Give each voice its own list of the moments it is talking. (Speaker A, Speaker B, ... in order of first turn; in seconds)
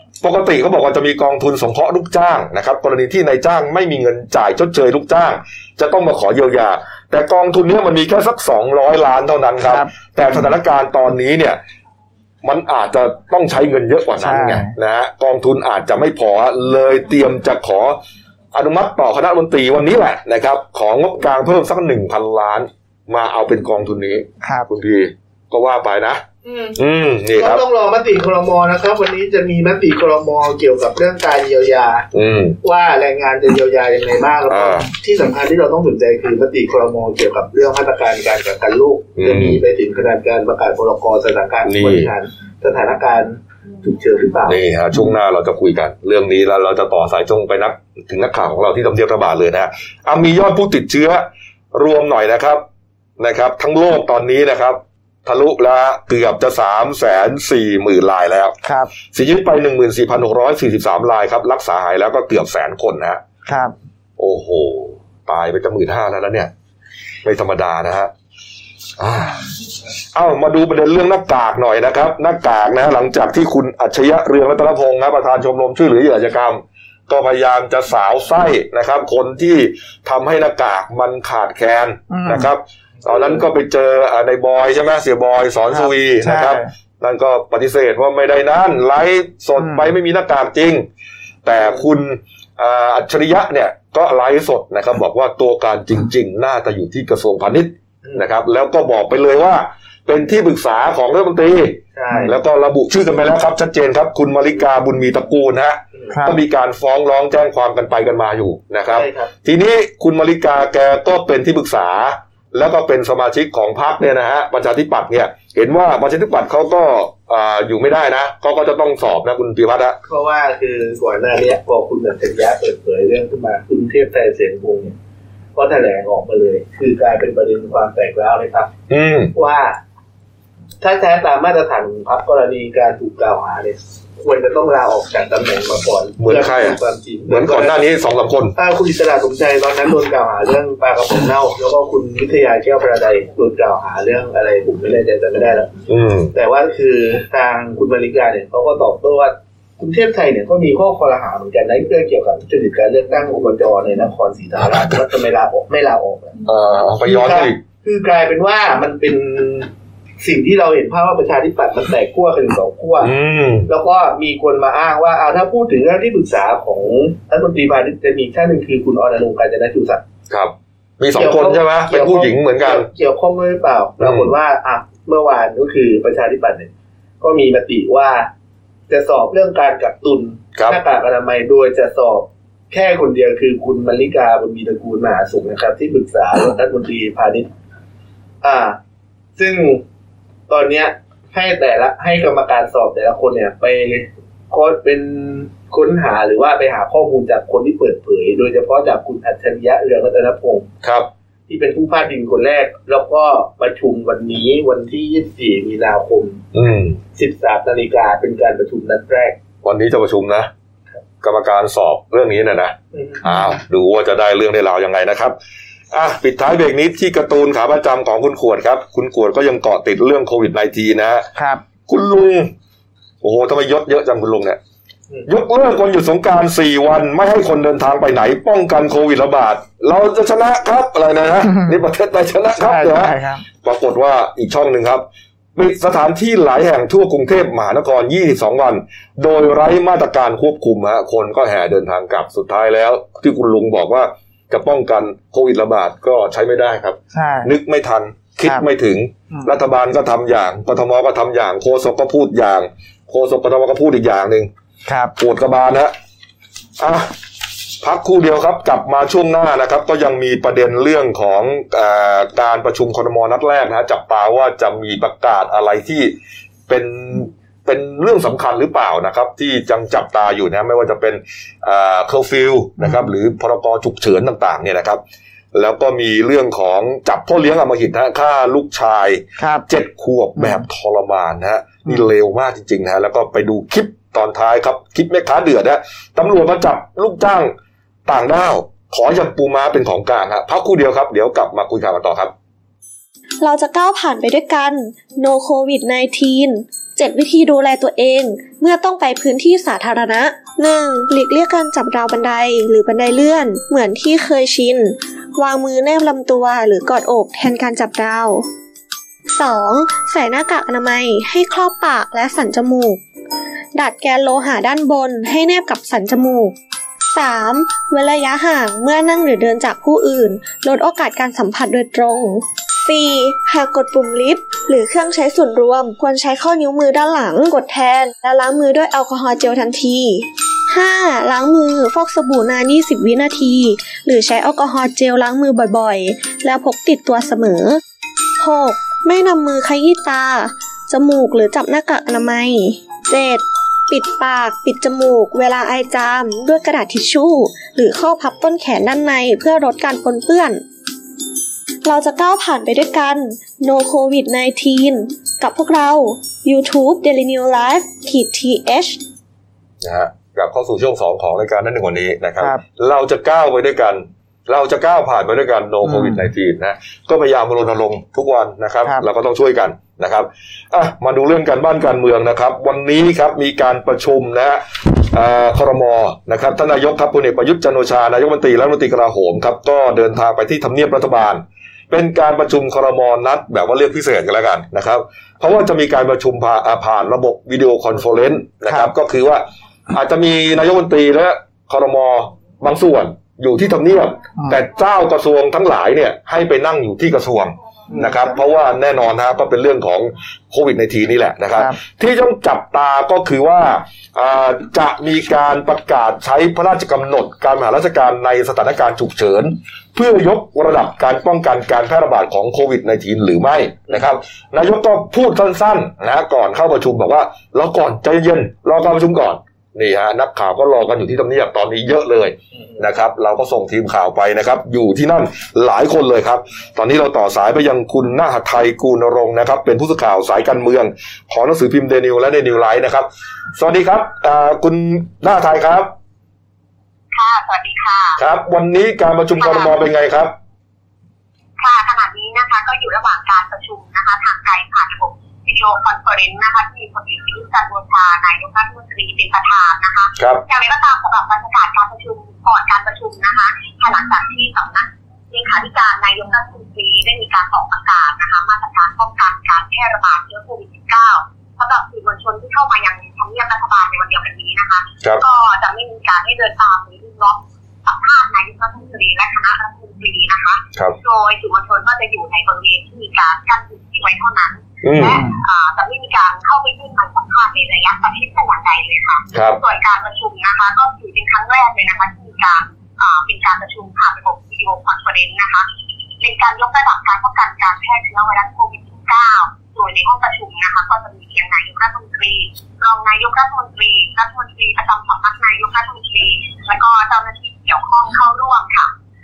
Speaker A: 0.2-11.6, 12.4-18.0, 18.5-26.2, 26.8-27.6, 32.1-32.6, 34.5-34.9, 39.2-39.6, 41.6-42.1, 44.5-52.6, 53.2-58.5, 59.1-63.2, 64.2-66.5, 67.2-68.1, 69.0-69.5, 70.1-90.9, 91.5-120.0, 128.9-129.3, 136.2-138.5, 145.9-146.3, 154.6-155.0, 156.4-157.6, 163.0-163.7, 170.3-172.9, 174.0-174.3, 200.8-201.1, 206.5-207.0, 209.6-210.5, 211.2-215.3, 215.9-221.3, 221.9-222.5, 223.2-224.6, 225.3-235.1, 235.6-254.5, 255.2-255.9, 256.8-257.1, 257.8-266.1, 266.7-275.0, 275.5-287.5, 288.1-292.3, 359.8-435.9, 438.2-440.3, 474.8-475.2, 479.3-479.6
Speaker B: 9.7-10.5, 14.2-14.7, 24.4-24.7, 58.6-58.9, 63.5-63.7, 82.1-82.5, 85.7-86.7, 89.6-89.9, 106.1-106.4, 221.4-221.6, 231.5-231.8, 232.6-233.4, 247.1-247.5, 254.9-255.2, 272.8-273.1, 279.4-279.7, 280.4-280.6, 365.8-366.3, 388.7-388.9, 394.4-394.6, 475.1-475.4
Speaker C: 26.4-26.8, 27.4-32.0, 32.6-44.6, 102.0-102.4, 106.0-106.2, 108.9-109.3, 120.0-125.0, 125.5-128.7, 129.3-129.8, 130.8-137.8, 138.6-145.7, 146.3-156.4, 157.1-159.7, 160.2-163.1, 163.7-170.0, 171.2-178.3, 178.9-187.5, 188.4-188.8, 189.4-189.8, 190.5-200.7, 201.5-206.4, 207.2-209.4, 212.9-213.2
Speaker D: 293.4-308.5, 309.3-313.0, 313.8-316.6, 317.1-337.8, 338.4-350.6, 351.9-359.0
Speaker E: 437.1-438.2, 439.4-439.8, 441.6-485.7, 486.2-498.9